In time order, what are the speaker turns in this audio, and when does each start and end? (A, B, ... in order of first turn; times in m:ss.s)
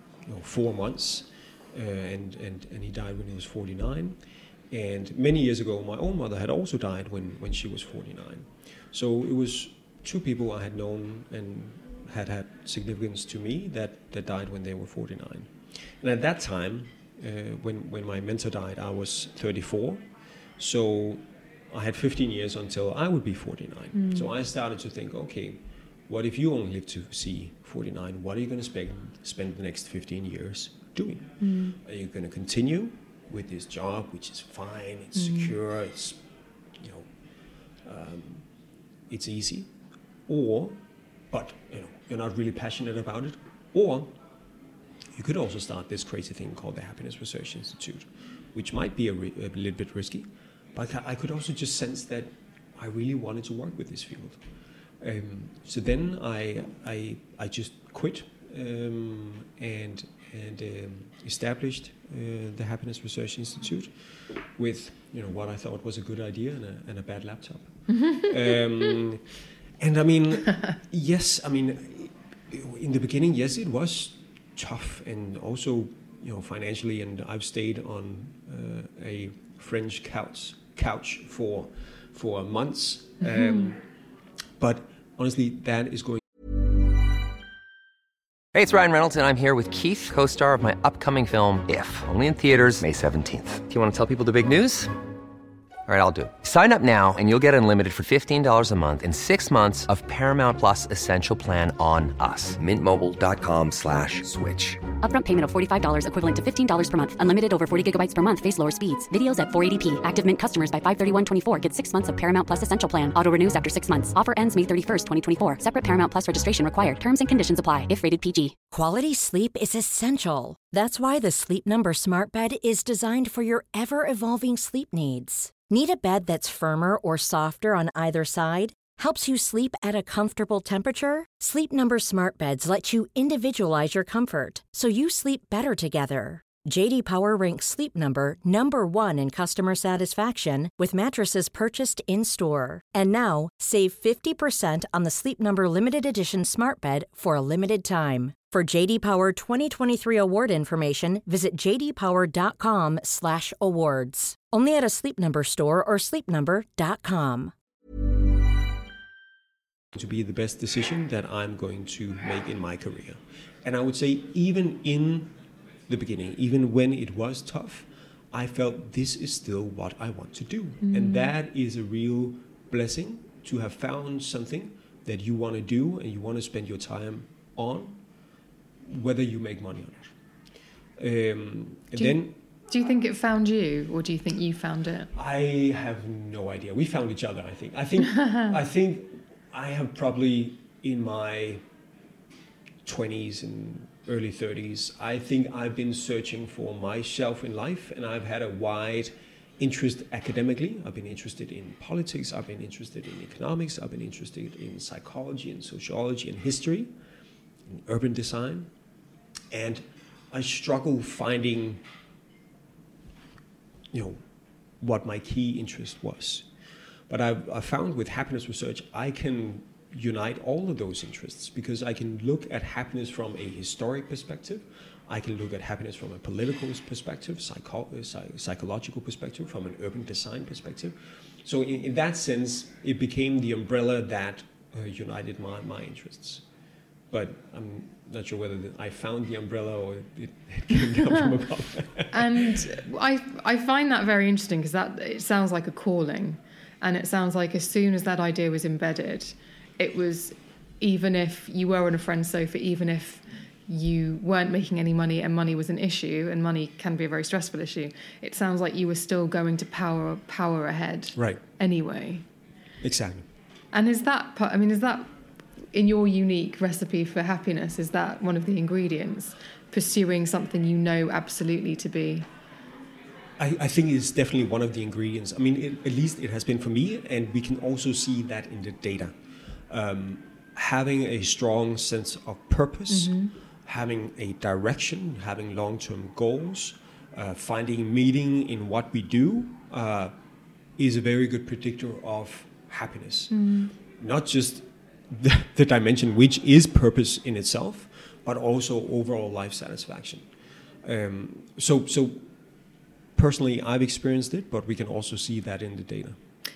0:00.2-0:04.2 A
0:04.7-0:20.0 A
0:20.6-0:36.2 A
0:23.9-0:24.3 B
0:31.4-0:31.8 B
0:35.2-0:35.5 B
0:36.8-0:37.1 A
0:37.8-0:38.4 A
0:39.1-0:39.7 A
0:40.3-0:44.1 A
0:45.1-0:54.4 A
0:55.0-1:09.2 A
1:08.0-1:08.3 B
1:09.8-1:23.8 A
1:23.2-1:23.7 B
1:24.6-1:26.2 A
1:28.5-1:34.9 C
1:35.9-1:44.9 C
1:45.0-1:58.6 D
1:58.7-2:37.5 E
2:39.9-2:45.3 A
2:45.9-2:58.0 A
2:50.8-2:51.3 B
2:58.8-3:00.1 A
3:01.0-3:02.3 A
3:01.9-3:05.1 B
3:05.1-3:11.6 A
3:12.8-3:26.9 A
3:27.7-3:28.7 A
3:29.5-3:31.8 A
3:33.9-3:34.2 A
3:34.8-3:36.4 A
3:37.1-3:56.4 A
3:57.1-4:02.7 A
4:02.1-4:22.2 B
4:21.2-4:21.4 A
4:22.8-4:23.3 A
4:23.7-4:25.1 B
4:25.7-4:32.3 B
4:33.4-4:39.2 A
4:39.7-4:50.1 A
4:42.9-4:43.3 B
4:50.8-4:53.3 A
4:53.3-4:53.7 B
4:54.0-5:00.3 A
5:00.8-5:02.3 A
5:03.2-5:06.2 A